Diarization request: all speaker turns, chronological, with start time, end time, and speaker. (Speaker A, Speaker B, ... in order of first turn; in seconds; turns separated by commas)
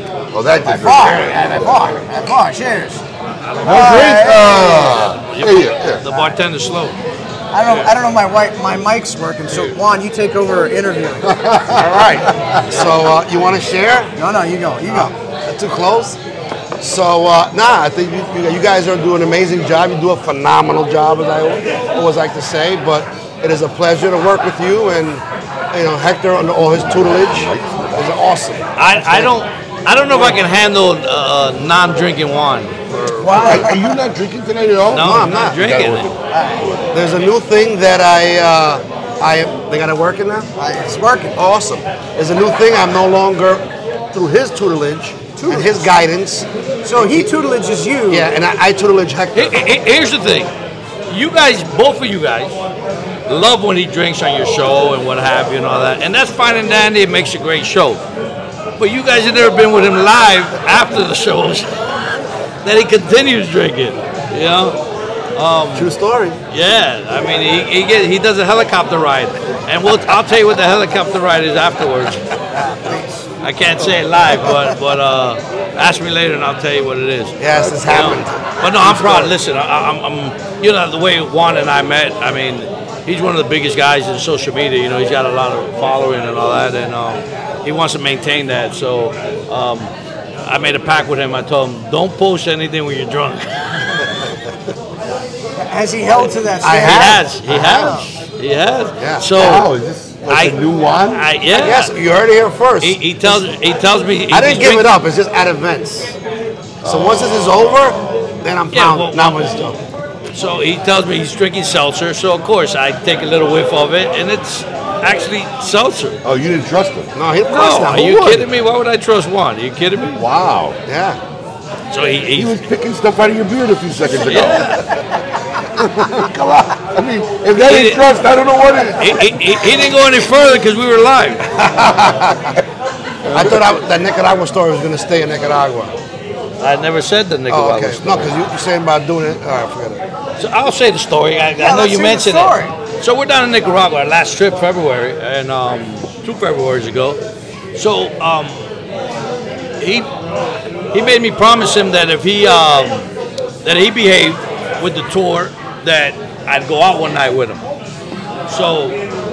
Speaker A: 0.3-1.7, Speaker B: 0.6-3.0, Speaker C: 3.4-7.0, Speaker A: 3.6-6.0, Speaker B: 3.6-4.7, Speaker B: 7.5-11.8, Speaker C: 7.7-7.9, Speaker D: 11.6-14.1, Speaker B: 14.2-15.1, Speaker D: 14.9-16.2, Speaker D: 16.8-29.3, Speaker A: 26.7-28.1, Speaker C: 28.8-32.8, Speaker D: 30.1-30.4, Speaker D: 33.2-33.6, Speaker B: 33.2-33.9, Speaker A: 33.3-36.9, Speaker C: 34.9-36.1, Speaker D: 35.0-35.6, Speaker B: 36.3-36.7, Speaker D: 36.9-40.5, Speaker B: 40.6-41.4, Speaker D: 41.4-46.5, Speaker B: 45.4-45.9, Speaker B: 46.8-48.3, Speaker D: 48.1-49.6, Speaker C: 49.3-50.5, Speaker C: 51.1-52.5, Speaker C: 53.3-58.0, Speaker C: 58.8-61.7, Speaker C: 62.6-64.8, Speaker C: 65.3-65.9, Speaker D: 65.7-66.4, Speaker C: 66.5-72.2, Speaker B: 72.5-73.2, Speaker C: 73.4-77.4, Speaker D: 77.4-79.3, Speaker A: 77.6-78.3, Speaker C: 77.9-89.9, Speaker C: 90.4-94.0, Speaker B: 95.6-98.1, Speaker D: 96.6-98.0, Speaker C: 96.7-99.7, Speaker D: 99.0-99.3, Speaker A: 99.3-101.2, Speaker C: 100.3-101.9, Speaker D: 101.5-103.5, Speaker C: 102.8-104.9, Speaker D: 104.3-106.2, Speaker A: 106.8-107.6, Speaker D: 106.8-109.8, Speaker C: 108.7-109.5, Speaker C: 110.3-116.2, Speaker A: 116.2-117.1, Speaker D: 117.1-118.5, Speaker C: 117.5-120.2, Speaker A: 120.2-120.8, Speaker D: 120.8-121.2, Speaker C: 121.9-122.6, Speaker A: 122.3-124.9, Speaker C: 124.1-124.8, Speaker A: 125.8-129.9, Speaker C: 127.5-128.1, Speaker C: 129.0-131.7, Speaker A: 131.7-132.6, Speaker D: 132.0-132.3, Speaker A: 133.2-133.8, Speaker D: 133.3-135.9, Speaker C: 136.6-138.3, Speaker D: 137.5-140.0, Speaker C: 140.4-147.2, Speaker B: 141.6-142.7, Speaker C: 147.7-148.6, Speaker C: 149.8-150.1, Speaker C: 150.9-153.1, Speaker C: 153.6-157.6, Speaker C: 158.5-159.0